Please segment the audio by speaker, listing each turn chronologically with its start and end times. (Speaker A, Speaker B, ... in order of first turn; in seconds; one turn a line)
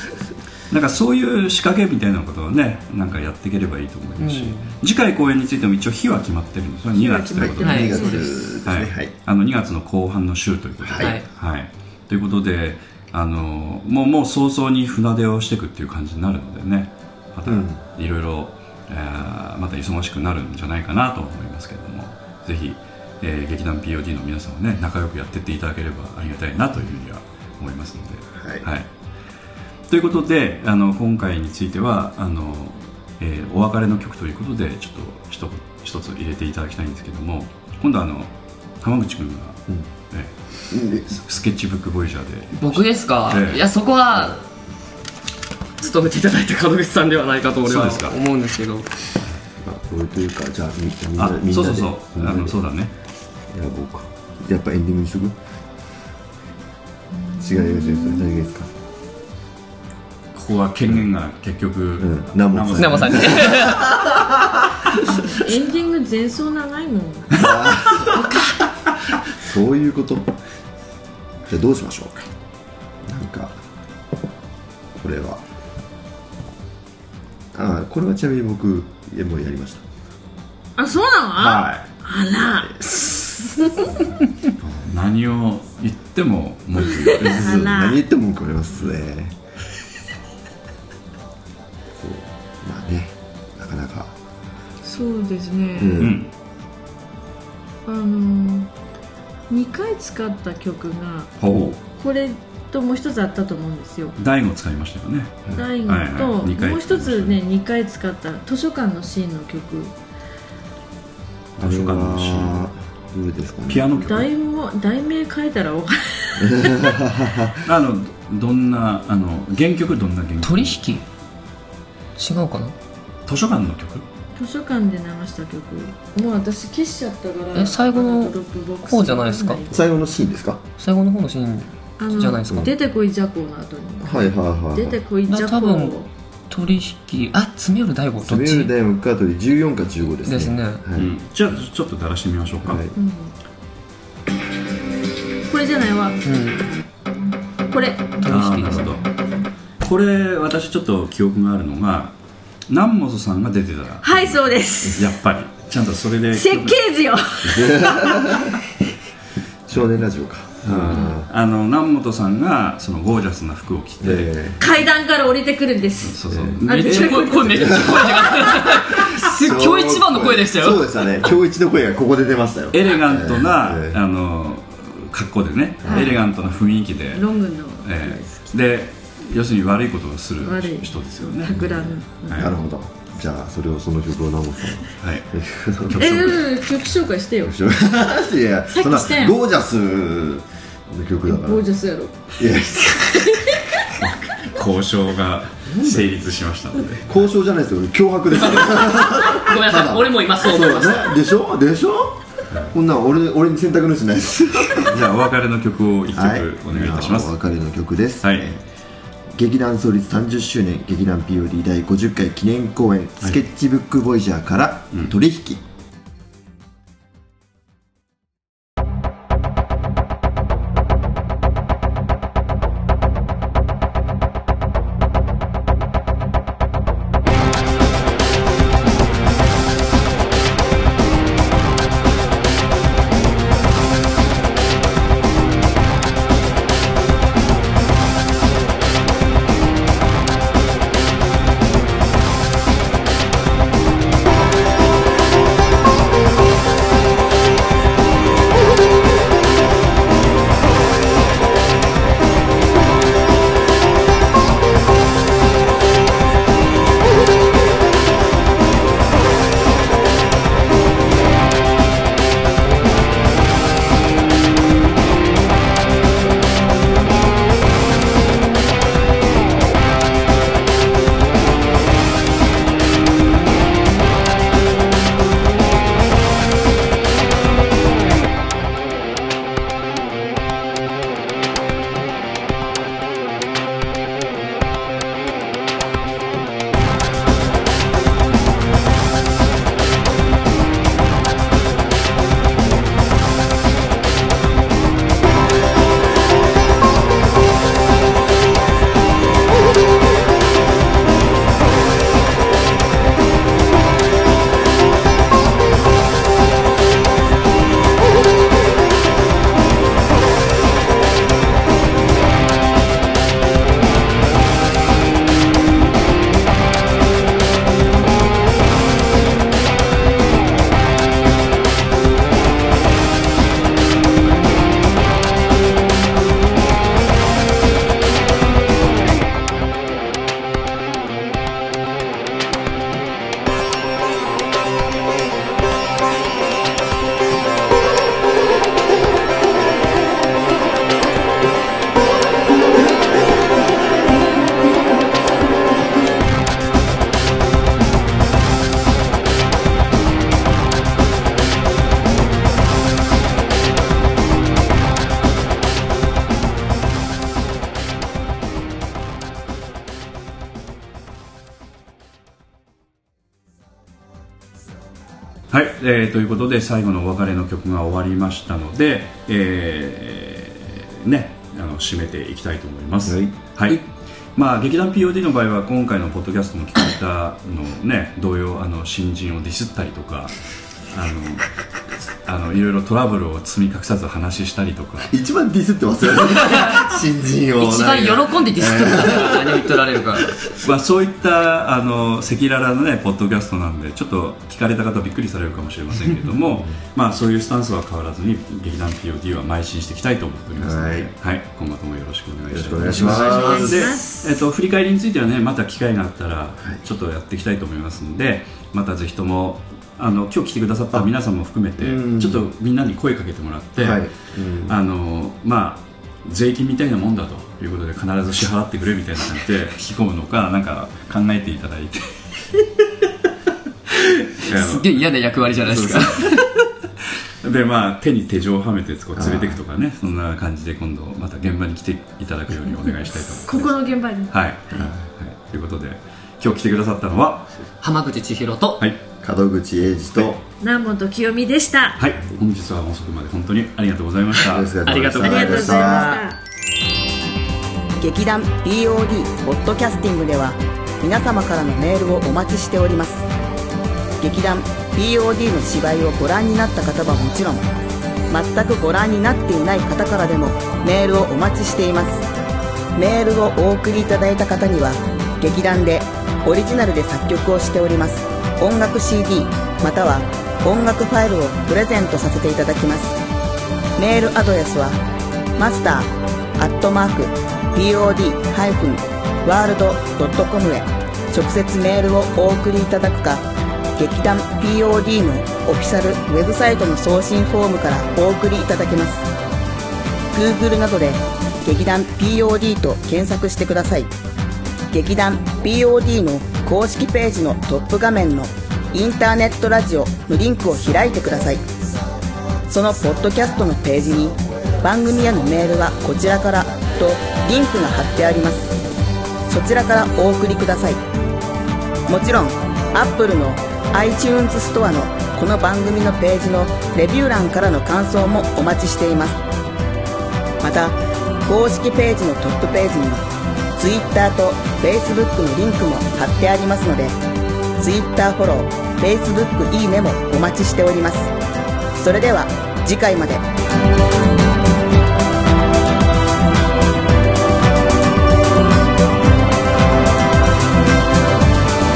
Speaker A: 0.7-8.0
Speaker B: 4.2-4.7
Speaker C: 6.9-8.4
Speaker D: 7.3-9.1
Speaker B: 7.6-8.3
Speaker A: 8.6-28.9
Speaker D: 10.8-11.2
Speaker B: 11.0-11.2
Speaker D: 17.4-17.8
Speaker D: 28.4-28.6
Speaker A: 29.9-40.3
Speaker D: 40.7-41.1
Speaker A: 40.9-43.7
Speaker B: 42.6-44.4
Speaker B: 45.8-48.9
Speaker A: 47.6-48.1
Speaker D: 49.6-52.5
Speaker A: 51.2-52.9
Speaker D: 53.5-55.4
Speaker C: 57.1-58.5
Speaker D: 57.4-58.7
Speaker A: 60.3-63.6
Speaker D: 62.0-64.9
Speaker B: 62.8-63.9
Speaker C: 65.0-67.5
Speaker D: 67.3-68.3
Speaker D: 69.3-70.3
Speaker D: 71.5-72.3
Speaker D: 73.0-73.5
Speaker D: 74.9-75.4
Speaker D: 77.5-79.8
Speaker C: 80.8-83.9
Speaker D: 81.3-81.9
Speaker A: 84.6-87.4
Speaker C: 87.0-88.0
Speaker D: 87.2-89.3
Speaker D: 92.0-94.1
Speaker C: 94.8-96.1
Speaker D: 95.8-96.2
Speaker A: 96.0-96.3
Speaker C: 97.8-98.7
Speaker C: 99.5-104.1
Speaker A: 101.4-101.8
Speaker A: 104.2-107.4
Speaker C: 105.5-109.9
Speaker A: 111.6-112.7
Speaker D: 111.6-113.9
Speaker A: 113.7-114.3
Speaker C: 113.9-117.0
Speaker D: 116.4-117.6
Speaker A: 117.6-120.8
Speaker B: 120.4-121.0
Speaker B: 122.2-122.7
Speaker A: 123.3-124.0
Speaker C: 124.3-129.8
Speaker B: 127.5-129.6
Speaker D: 129.7-130.6
Speaker B: 130.8-132.7
Speaker C: 132.0-136.1
Speaker D: 134.0-135.0
Speaker B: 135.3-135.9
Speaker B: 136.5-138.7
Speaker D: 138.2-141.1
Speaker B: 140.2-140.8
Speaker A: 140.9-142.8
Speaker D: 142.6-142.9
Speaker C: 142.9-143.3
Speaker C: 145.5-146.2
Speaker B: 146.2-146.6
Speaker C: 147.7-148.1
Speaker B: 148.2-148.9
Speaker A: 148.3-149.1
Speaker A: 149.8-152.1
Speaker A: 152.7-156.8
Speaker C: 154.0-155.1
Speaker C: 156.3-158.5
Speaker D: 157.5-158.5
Speaker D: 159.7-161.3
Speaker A: 160.6-164.6
Speaker C: 160.9-161.2
Speaker D: 164.0-164.6
Speaker C: 164.6-168.6
Speaker A: 166.0-167.6
Speaker D: 166.3-166.6
Speaker B: 166.6-171.2
Speaker D: 167.6-167.9
Speaker D: 168.9-174.0
Speaker A: 172.7-177.3
Speaker D: 175.8-176.2
Speaker C: 175.9-176.2
Speaker C: 177.1-178.5
Speaker A: 177.8-181.6
Speaker C: 180.4-182.5
Speaker D: 181.5-186.4
Speaker A: 185.0-185.2
Speaker A: 185.9-186.4
Speaker C: 185.9-187.6
Speaker D: 187.4-191.6
Speaker C: 188.7-189.4
Speaker C: 191.3-193.6
Speaker D: 192.4-193.4
Speaker A: 193.9-197.1
Speaker D: 195.7-196.1
Speaker D: 197.0-205.0
Speaker B: 198.4-201.2
Speaker A: 204.7-207.3
Speaker D: 206.1-208.6
Speaker D: 209.3-215.6
Speaker A: 365.5-381.5
Speaker D: 373.1-373.4
Speaker A: 382.2-385.1
Speaker D: 385.1-389.8
Speaker B: 387.6-390.3
Speaker A: 390.6-414.1
Speaker D: 400.6-401.1
Speaker D: 402.5-403.9
Speaker C: 402.9-404.4
Speaker D: 411.8-412.5
Speaker D: 413.8-414.8
Speaker A: 414.6-422.4
Speaker A: 424.4-426.4
Speaker B: 424.4-426.5
Speaker A: 427.0-433.7
Speaker D: 429.1-429.6
Speaker C: 433.3-434.9
Speaker A: 434.3-437.5
Speaker B: 437.8-438.9
Speaker D: 439.2-440.4
Speaker C: 440.6-442.0
Speaker A: 442.0-445.6
Speaker D: 444.4-446.2
Speaker B: 444.8-446.2
Speaker C: 445.2-446.4
Speaker E: 448.0-453.2
Speaker E: 454.2-457.6
Speaker E: 458.3-462.3
Speaker E: 462.9-473.2
Speaker E: 474.0-475.0
Speaker E: 475.6-489.2
Speaker E: 490.3-494.1
Speaker E: 494.9-501.6
Speaker E: 502.7-508.8
Speaker E: 509.5-511.0
Speaker E: 512.1-519.4
Speaker E: 520.6-527.2
Speaker E: 527.8-531.3
Speaker E: 531.9-533.5